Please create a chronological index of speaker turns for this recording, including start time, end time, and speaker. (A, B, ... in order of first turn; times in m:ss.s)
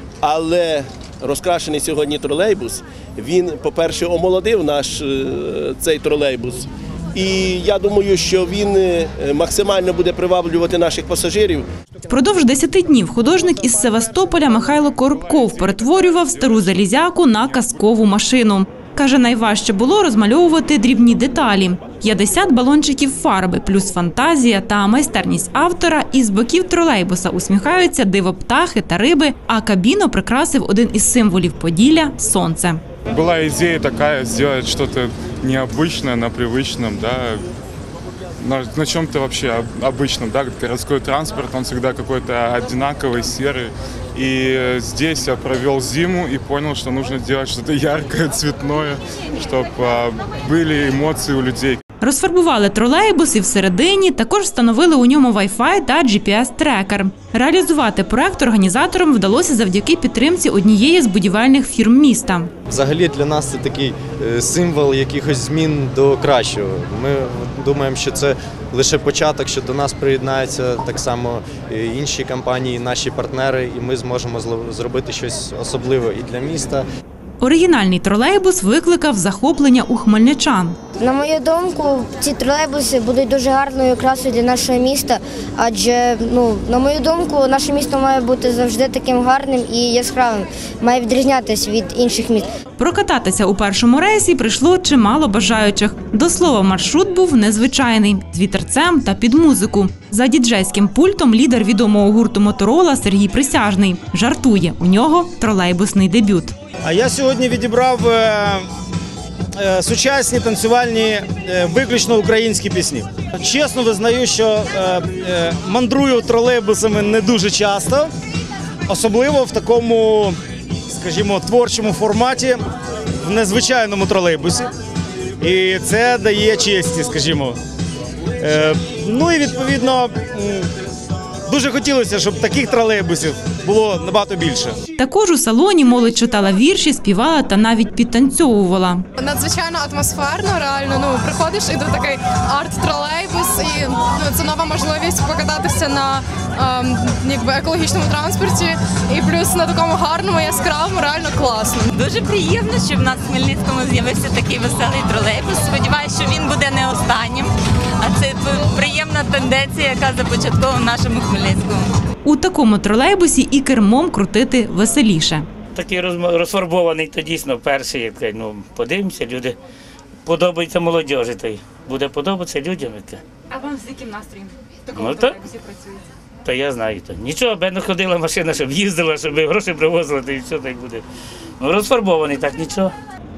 0:00.2-0:11.7 A
0:12.1-0:32.8 B
0:15.0-0:16.9 C
0:33.1-0:37.4 C
0:38.4-0:51.8 C
0:52.0-1:02.5 B
1:02.7-1:16.8 D
1:17.4-1:20.8 B
1:21.0-1:32.5 E
1:32.8-1:46.5 B
1:46.8-1:48.6 F
1:49.6-1:58.1 F
1:58.9-2:00.4 F
2:00.9-2:02.6 F
2:03.2-2:04.7 F
2:05.4-2:07.6 F
2:08.4-2:10.7 F
2:11.5-2:14.8 F
2:15.0-2:19.0 B
2:19.2-2:31.9 G
2:31.9-2:41.9 H
2:42.2-2:45.5 B
2:45.7-2:49.6 I
2:50.2-2:53.2 I
2:53.5-2:54.5 H
2:54.9-2:55.4 I
2:56.4-3:01.0 I
3:01.6-3:02.9 I